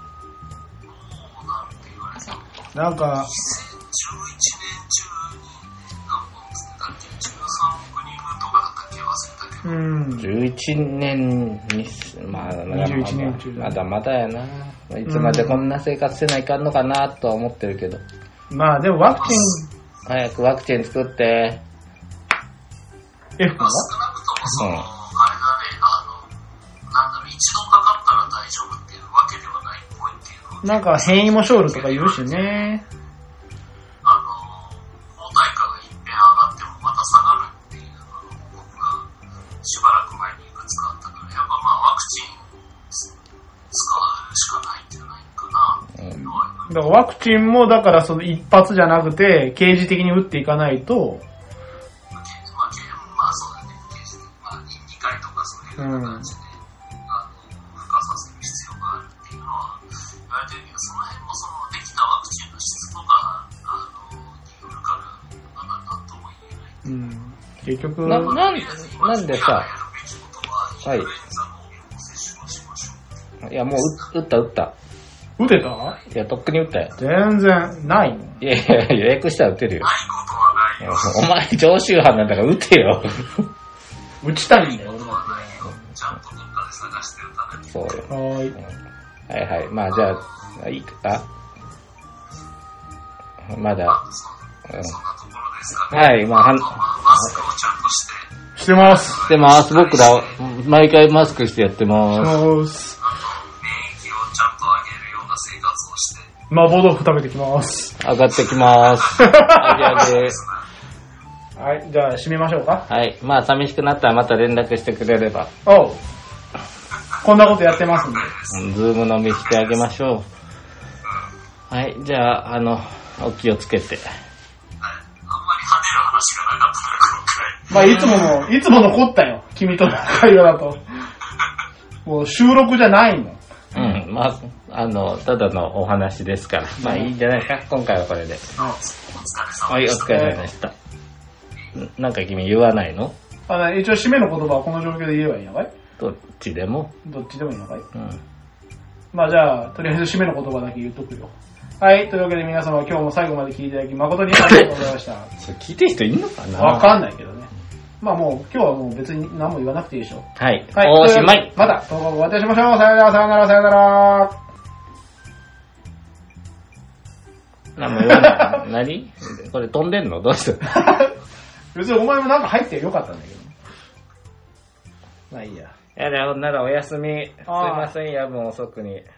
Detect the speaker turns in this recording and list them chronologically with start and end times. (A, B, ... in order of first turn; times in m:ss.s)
0:00.8-0:09.8 A
0:02.7-0:03.3 B
0:09.6-0:10.4 B
0:10.2-0:18.0 C
0:12.4-0:13.8 B
0:15.1-0:15.7 B
0:18.5-0:19.7 B
0:19.2-0:19.6 A
0:20.1-0:21.6 C
0:23.4-0:23.9 B
0:23.5-0:32.7 A
0:24.5-0:24.9 C
0:30.6-0:32.8 B
0:34.0-0:39.1 A
0:39.6-0:43.2 A
0:43.7-0:47.0 A
0:46.0-0:46.4 C
0:46.7-0:51.2 B
0:52.1-1:07.0 A
0:55.8-0:56.3 B
1:06.8-1:08.4 B
1:08.0-1:09.7 C
1:08.2-1:14.1 A
1:13.4-1:14.7 C
1:15.4-1:16.0 B
1:15.4-1:16.1 A
1:16.1-1:16.9 C
1:17.0-1:18.4 B
1:18.4-1:19.9 C
1:19.8-1:21.2 A
1:20.8-1:23.5 C
1:24.2-1:25.6 B
1:24.4-1:28.0 A
1:27.7-1:28.2 C
1:28.1-1:28.5 B
1:29.3-1:31.3 C
1:29.9-1:30.6 A
1:33.5-1:34.0 C
1:33.9-1:40.4 A
1:35.9-1:37.4 C
1:38.6-1:39.3 B
1:39.3-1:42.4 C
1:42.1-1:43.0 B
1:43.0-1:46.3 A
1:46.5-1:48.0 B
1:48.0-1:50.4 C
1:48.8-1:50.6 A
1:49.2-1:50.0 B
1:51.6-1:52.9 B
1:52.9-1:55.5 C
1:55.6-1:56.0 B
1:57.2-1:58.3 B
1:57.2-1:58.6 A
1:58.5-2:00.3 C
1:59.4-1:59.7 A
2:01.7-2:04.1 C
2:04.8-2:07.8 A
2:07.7-2:11.1 B
2:07.7-2:08.3 C
2:12.0-2:13.4 B
2:13.7-2:18.5 C
2:16.8-2:17.2 B
2:17.3-2:17.6 A
2:18.6-2:20.5 A
2:19.7-2:20.7 C
2:20.1-2:20.4 B
2:21.8-2:23.1 C
2:23.5-2:25.7 B
2:26.0-2:26.9 C
2:27.0-2:27.9 B
2:28.0-2:28.2 C
2:29.1-2:35.3 B
2:35.4-2:37.0 C
2:36.6-2:44.4 B
2:40.4-2:41.6 C
2:47.8-2:50.8 C
2:47.9-2:48.6 B
2:50.6-2:51.2 B
2:51.7-2:53.6 B
2:55.3-2:55.8 B
2:56.0-2:59.1 C
2:57.5-2:57.9 B